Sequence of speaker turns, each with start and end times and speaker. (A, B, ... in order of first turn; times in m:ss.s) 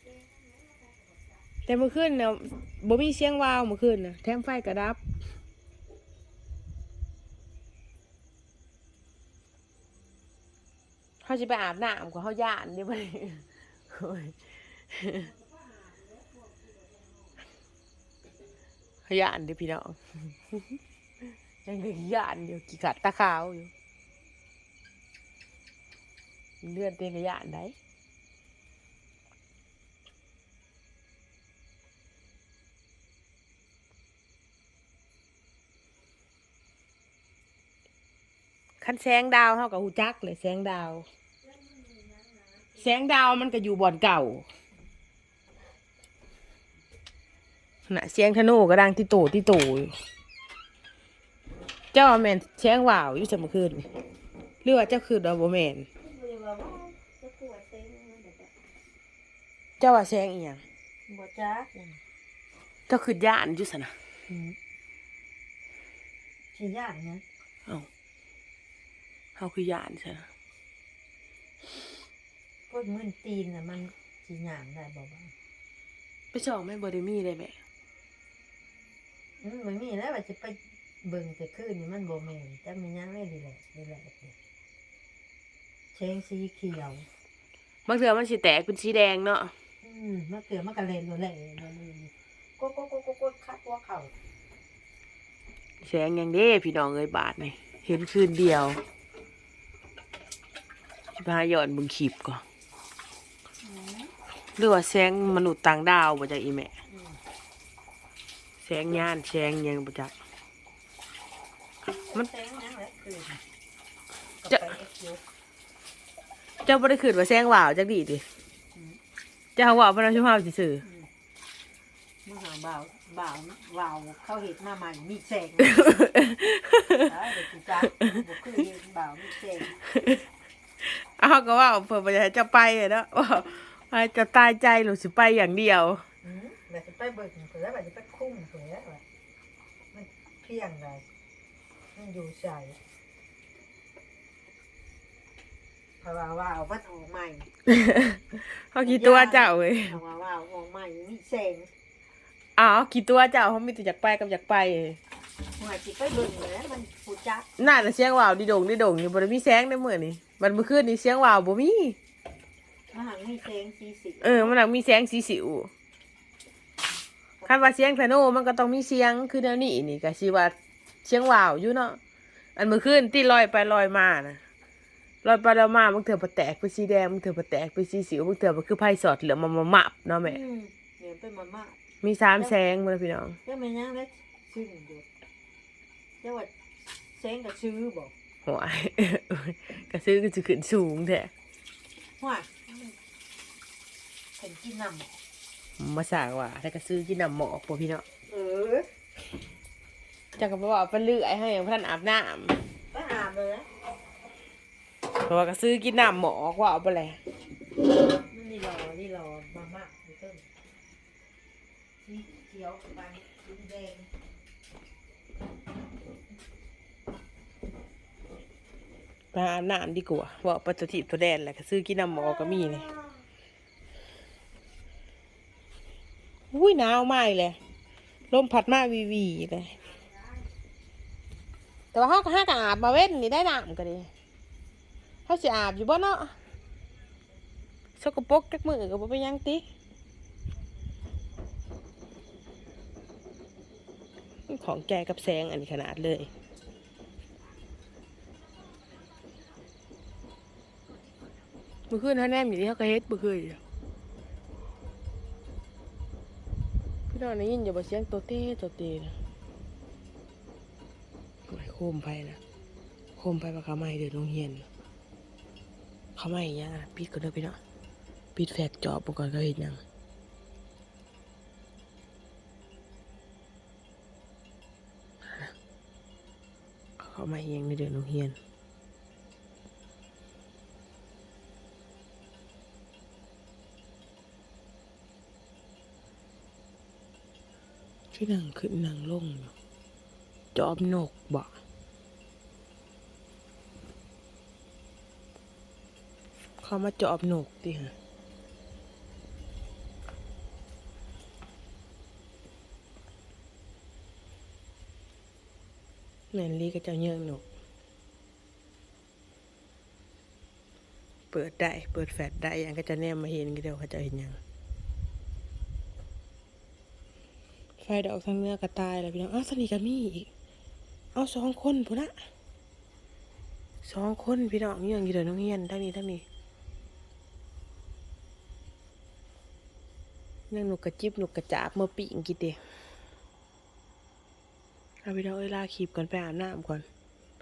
0:01.7-0:05.0 A
0:11.2-0:14.4 A
0:14.9-0:15.3 A
0:19.1-0:20.0 A
0:21.6-0:23.7 A
0:26.6-0:27.8 A
0:38.8-0:41.1 A
0:42.8-0:44.5 A
0:47.9-0:49.9 A
0:51.9-0:53.9 A
0:54.6-0:55.9 A
0:56.0-0:58.6 B
0:59.8-1:00.6 A
1:01.1-1:02.0 B
1:02.9-1:03.9 A
1:04.3-1:04.6 B
1:06.5-1:07.2 B
1:09.4-1:10.3 A
1:12.7-1:15.3 B
1:16.3-1:17.6 A
1:19.4-1:24.3 B
1:25.9-1:27.1 B
1:27.9-1:29.5 A
1:29.8-1:34.1 B
1:35.8-1:38.8 A
1:41.2-1:42.4 A
1:43.6-1:44.1 B
1:44.6-1:46.7 A
1:46.9-1:47.2 B
1:48.6-1:50.1 A
1:52.0-1:53.4 B
1:54.4-1:55.2 B
1:56.6-1:58.2 A
1:59.6-2:00.8 A
2:00.8-2:01.1 B
2:02.3-2:06.0 B
2:05.6-2:07.1 A
2:07.0-2:09.8 B
2:09.9-2:10.2 A
2:10.8-2:16.0 A
2:16.2-2:19.0 B
2:19.9-2:21.0 B
2:22.0-2:22.8 B
2:26.0-2:27.5 B
2:27.7-2:30.0 A
2:28.8-2:31.7 B
2:32.6-2:35.0 A
2:35.6-2:37.7 B
2:37.6-2:42.0 A
2:42.9-2:44.6 B
2:44.2-2:45.7 A
2:47.4-2:47.7 B
2:47.4-2:52.0 A
2:52.6-2:54.4 A
2:55.2-3:00.4 A
3:00.2-3:01.8 B
3:02.0-3:03.4 A
3:03.5-3:05.0 B
3:06.2-3:06.5 B
3:07.1-3:08.1 B
3:08.4-3:11.3 A
3:12.2-3:13.0 B
3:14.4-3:15.2 B
3:15.8-3:18.0 A
3:18.3-3:18.9 B
3:20.4-3:22.6 A
3:22.9-3:23.7 B
3:25.2-3:27.2 A
3:28.2-3:30.4 B
3:32.0-3:34.1 B
3:39.3-3:42.9 A
3:46.5-3:47.6 A
3:48.3-3:49.8 A
3:51.9-3:54.1 A
3:55.3-3:56.3 A
3:58.0-3:59.6 A
4:04.5-4:06.3 A
4:11.9-4:13.6 A
4:17.1-4:19.1 A
4:21.5-4:22.4 A
4:23.2-4:24.7 A
4:26.2-4:27.6 A
4:28.4-4:29.8 A
4:37.0-4:38.4 A
4:48.1-4:49.5 A
4:50.6-4:51.5 A
4:56.6-4:57.9 A
5:06.3-5:07.4 A
5:11.3-5:14.4 A
5:17.8-5:20.3 A
5:21.2-5:22.2 A
5:23.8-5:26.2 A
5:30.5-5:32.6 A
5:35.0-5:36.8 A